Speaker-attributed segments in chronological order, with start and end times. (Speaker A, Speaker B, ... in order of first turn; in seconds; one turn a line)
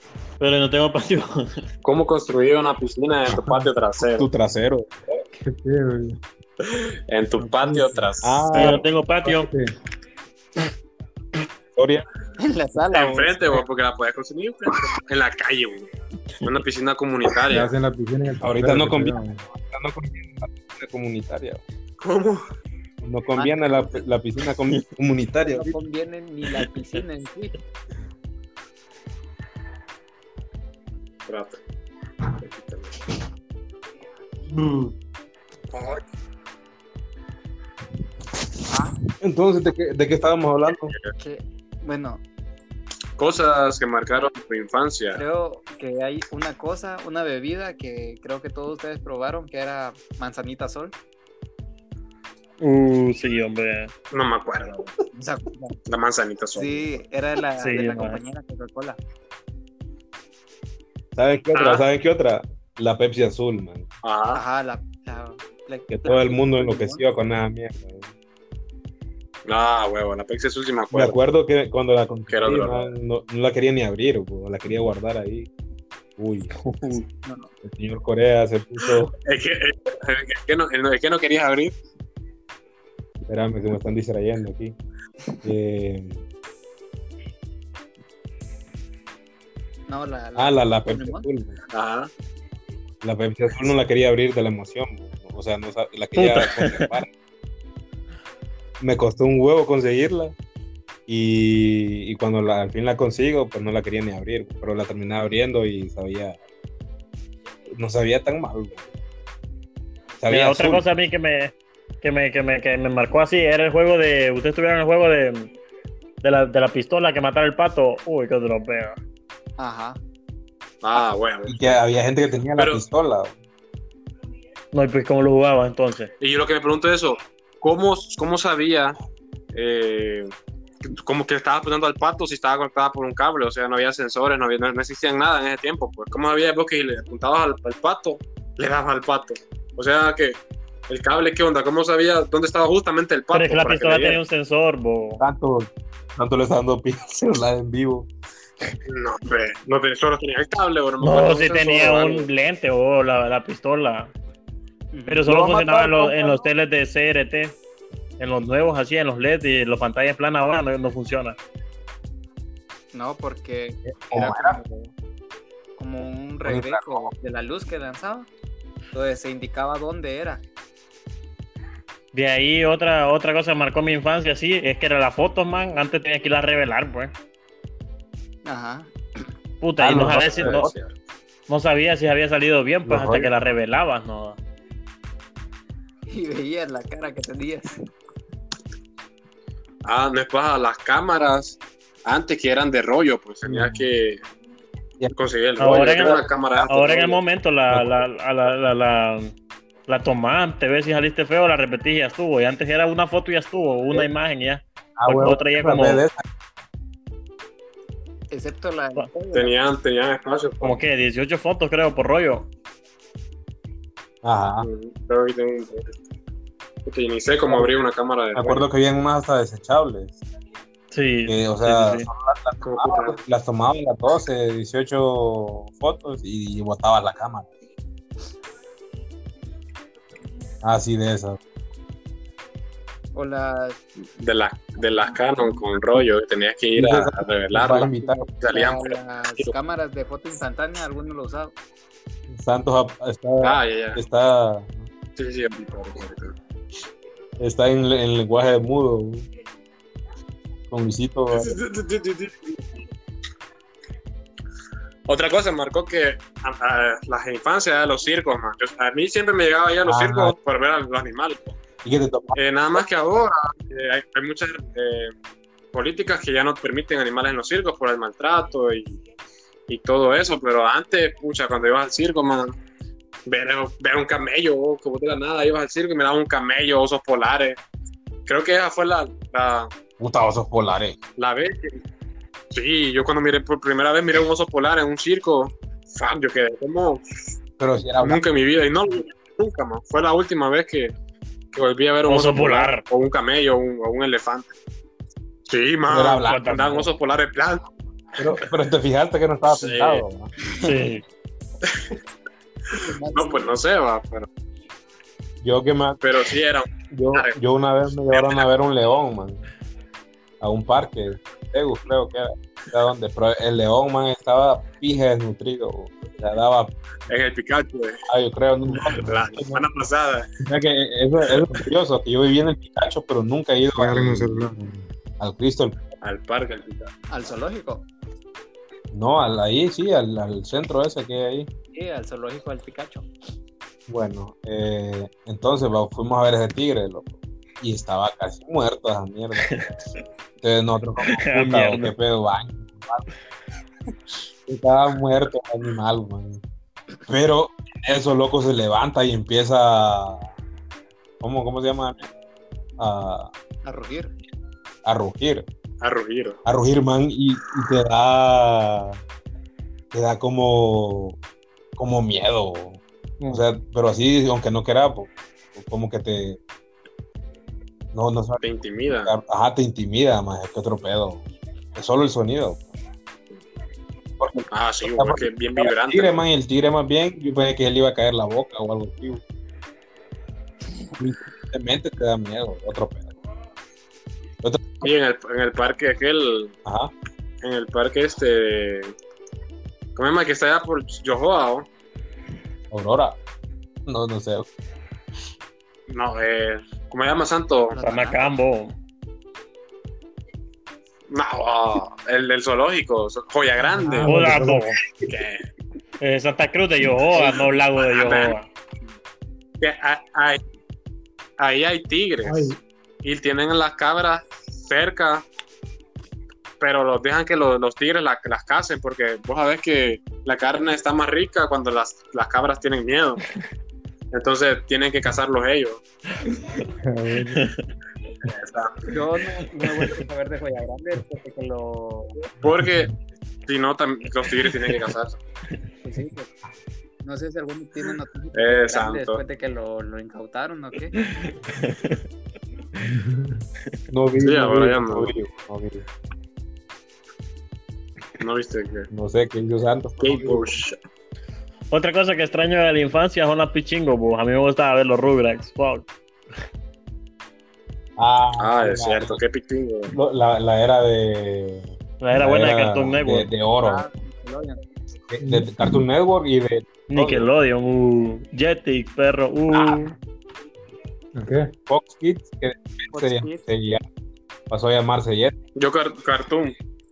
Speaker A: 0.4-1.6
Speaker B: 1.8-4.3
Speaker C: 4.1-4.9
Speaker D: 5.4-6.2
Speaker B: 6.6-8.8
Speaker D: 7.4-8.1
Speaker C: 8.2-8.8
Speaker A: 8.5-9.5
Speaker D: 9.2-9.7
Speaker C: 11.8-12.0
Speaker E: 12.4-13.6
Speaker B: 12.9-15.9
Speaker B: 16.4-17.7
Speaker D: 17.5-19.4
Speaker C: 18.4-21.6
Speaker B: 22.0-22.5
Speaker C: 23.0-25.8
Speaker E: 23.3-24.1
Speaker E: 25.4-27.6
Speaker B: 31.3-31.6
Speaker B: 32.3-32.9
Speaker C: 34.5-34.9
Speaker B: 35.7-36.0
Speaker E: 38.7-39.0
Speaker C: 39.2-40.9
Speaker E: 41.2-42.2
Speaker B: 43.2-45.2
Speaker E: 45.1-51.0
Speaker A: 52.6-53.9
Speaker B: 54.1-54.9
Speaker E: 55.1-55.8
Speaker B: 55.9-56.9
Speaker E: 56.5-59.0
Speaker A: 57.6-58.2
Speaker C: 61.1-63.9
Speaker B: 61.5-61.9
Speaker B: 64.0-64.4
Speaker E: 64.3-67.0
Speaker C: 65.9-68.1
Speaker B: 69.5-71.2
Speaker C: 70.9-75.5
Speaker B: 72.3-72.9
Speaker C: 76.2-76.5
Speaker A: 76.6-77.0
Speaker E: 77.2-77.5
Speaker C: 77.6-79.1
Speaker B: 79.2-81.7
Speaker C: 83.3-84.7
Speaker C: 85.4-86.2
Speaker E: 89.9-91.3
Speaker C: 90.3-91.6
Speaker B: 91.7-92.1
Speaker C: 93.0-97.1
Speaker A: 96.2-96.9
Speaker C: 98.8-100.3
Speaker C: 101.1-106.4
Speaker C: 107.7-108.9
Speaker C: 110.2-110.8
Speaker A: 110.3-115.5
Speaker A: 116.2-119.0
Speaker E: 119.6-120.0
Speaker B: 120.8-121.8
Speaker C: 121.5-123.3
Speaker B: 122.5-122.8
Speaker A: 124.7-126.1
Speaker B: 126.2-129.0
Speaker B: 129.5-144.2
Speaker A: 143.3-145.2
Speaker C: 145.2-148.1
Speaker B: 148.9-152.3
Speaker A: 151.0-154.1
Speaker E: 154.9-156.4
Speaker A: 155.1-157.6
Speaker C: 155.3-155.9
Speaker A: 158.2-161.4
Speaker E: 162.9-164.9
Speaker C: 163.8-164.6
Speaker E: 165.8-168.3
Speaker C: 166.4-167.1
Speaker E: 168.9-170.4
Speaker A: 172.1-177.1
Speaker E: 178.4-178.9
Speaker A: 179.6-180.7
Speaker C: 179.8-180.7
Speaker B: 180.2-180.9
Speaker A: 181.5-184.4
Speaker C: 182.8-183.3
Speaker E: 186.1-187.8
Speaker B: 189.8-194.2
Speaker D: 193.4-193.8
Speaker B: 195.1-197.2
Speaker A: 195.6-199.3
Speaker C: 195.7-196.8
Speaker C: 197.7-198.0
Speaker A: 199.9-206.0
Speaker C: 205.0-206.2
Speaker E: 208.3-209.5
Speaker B: 209.3-210.8
Speaker A: 210.6-212.5
Speaker C: 214.2-214.7
Speaker B: 214.6-215.9
Speaker B: 216.8-218.6
Speaker C: 218.3-220.2
Speaker A: 220.9-222.1
Speaker C: 221.3-227.5
Speaker B: 222.6-223.2
Speaker C: 230.6-231.4
Speaker E: 233.1-233.8
Speaker B: 234.2-239.5
Speaker C: 236.7-238.3
Speaker E: 237.7-241.5
Speaker C: 242.3-244.9
Speaker B: 243.4-244.0
Speaker B: 245.2-246.3
Speaker C: 247.4-249.3
Speaker C: 250.7-251.6
Speaker B: 251.3-252.6
Speaker B: 255.1-261.6
Speaker C: 259.8-260.4
Speaker C: 261.8-262.8
Speaker B: 262.3-265.1
Speaker B: 265.7-269.0
Speaker B: 269.7-272.6
Speaker B: 273.2-277.6
Speaker B: 278.2-279.7
Speaker C: 280.0-281.0
Speaker B: 281.1-281.8
Speaker B: 282.5-287.0
Speaker C: 287.6-288.2
Speaker B: 288.0-290.9
Speaker B: 291.5-294.5
Speaker A: 292.1-292.8
Speaker B: 295.5-297.7
Speaker C: 295.9-296.9
Speaker A: 296.2-296.9
Speaker C: 298.2-300.3
Speaker B: 299.5-300.0
Speaker A: 300.6-301.0
Speaker B: 301.6-301.9
Speaker B: 302.7-304.3
Speaker E: 302.8-303.5
Speaker C: 305.4-306.0
Speaker B: 306.0-307.3
Speaker C: 306.9-309.4
Speaker B: 308.1-308.4
Speaker C: 310.4-316.7
Speaker B: 317.1-318.0
Speaker C: 318.1-319.6
Speaker B: 318.8-320.3
Speaker C: 320.4-325.9
Speaker D: 323.7-324.6
Speaker B: 326.0-326.9
Speaker E: 327.1-327.9
Speaker C: 328.9-331.5
Speaker E: 331.7-333.1
Speaker C: 333.9-339.6
Speaker C: 340.4-343.1
Speaker A: 341.0-341.9
Speaker C: 344.5-346.4
Speaker C: 347.1-350.3
Speaker C: 351.2-352.0
Speaker C: 352.8-353.3
Speaker E: 353.6-354.1
Speaker C: 354.8-355.4
Speaker B: 355.8-356.4
Speaker C: 356.4-359.0
Speaker C: 359.9-361.2
Speaker C: 361.8-366.4
Speaker C: 367.9-368.4
Speaker B: 368.4-369.1
Speaker C: 369.0-372.6
Speaker C: 374.2-379.2
Speaker B: 374.5-376.2
Speaker C: 381.0-383.1
Speaker C: 384.4-384.9
Speaker B: 384.8-386.6
Speaker C: 386.6-386.9
Speaker B: 387.4-388.9
Speaker B: 389.9-391.7
Speaker C: 392.7-393.2
Speaker C: 393.9-394.5
Speaker B: 395.9-397.8
Speaker E: 397.7-398.3
Speaker A: 397.8-398.7
Speaker B: 401.1-404.3
Speaker D: 403.7-404.9
Speaker A: 404.0-404.8
Speaker B: 405.1-405.4
Speaker A: 406.0-408.5
Speaker B: 407.1-408.3
Speaker B: 409.6-410.4
Speaker B: 411.4-415.2
Speaker D: 412.2-412.6
Speaker B: 416.6-423.2
Speaker B: 424.1-425.8
Speaker D: 426.8-427.4
Speaker A: 427.3-427.6
Speaker B: 428.2-428.9
Speaker E: 428.9-432.2
Speaker B: 432.4-432.9
Speaker B: 433.4-435.2
Speaker A: 434.4-434.8
Speaker E: 435.8-436.3
Speaker E: 437.0-441.0
Speaker B: 438.3-439.2
Speaker A: 440.9-442.0
Speaker D: 442.8-443.4
Speaker C: 443.9-445.9
Speaker B: 444.2-445.1
Speaker B: 448.2-448.9
Speaker C: 448.9-450.6
Speaker B: 450.0-450.8
Speaker A: 451.7-455.9
Speaker C: 458.0-459.2
Speaker B: 458.4-459.9
Speaker C: 459.9-463.9
Speaker A: 462.0-463.3
Speaker E: 463.6-464.6
Speaker C: 465.1-467.3
Speaker D: 465.2-465.8
Speaker A: 466.9-469.9
Speaker C: 469.5-469.9
Speaker D: 471.1-471.5
Speaker C: 471.7-473.8
Speaker E: 472.9-473.4
Speaker C: 474.5-475.3
Speaker B: 475.6-476.5